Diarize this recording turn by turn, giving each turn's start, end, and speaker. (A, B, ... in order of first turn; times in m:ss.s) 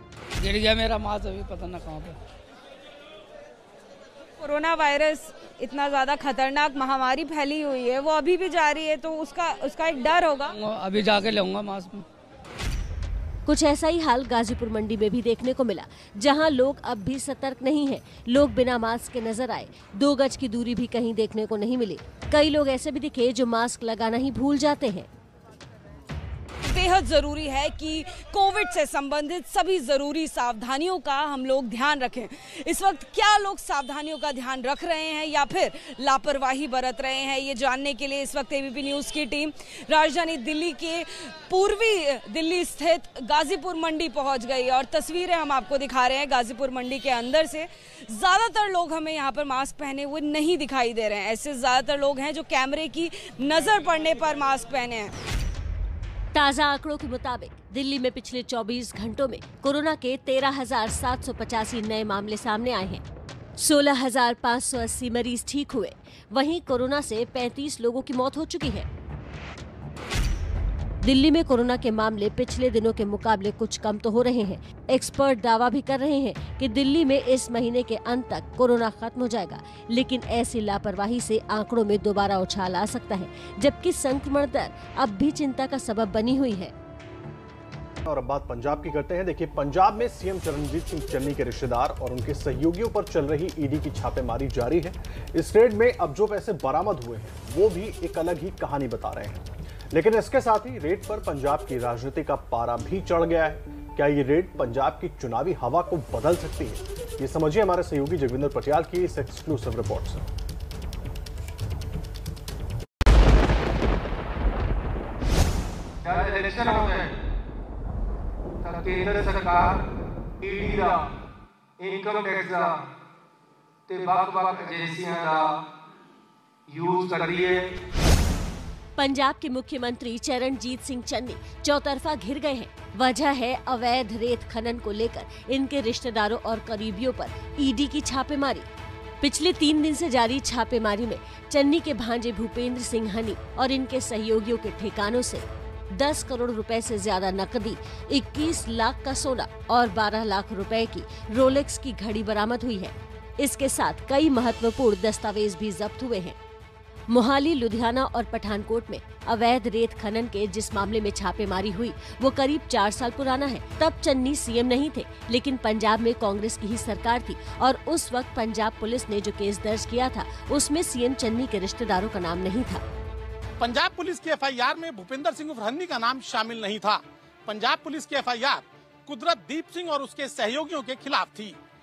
0:00.4-0:02.1 A
0:04.4-0:10.5 B
0:10.6-0:12.0 A
0:13.4-0:25.1 C
0:26.6-0:55.1 B
0:56.3-1:03.0 C
1:03.6-1:08.9 C
1:11.0-1:26.7 C
1:28.0-1:50.3 D
1:56.0-1:57.1 E
1:58.6-1:59.8 E
2:00.4-2:01.0 E
2:01.8-2:02.7 E
2:03.9-2:05.4 E
2:06.7-2:07.7 E
2:09.0-2:18.7 C
2:19.2-2:36.4 C
2:37.1-2:52.8 C
2:53.6-3:01.6 F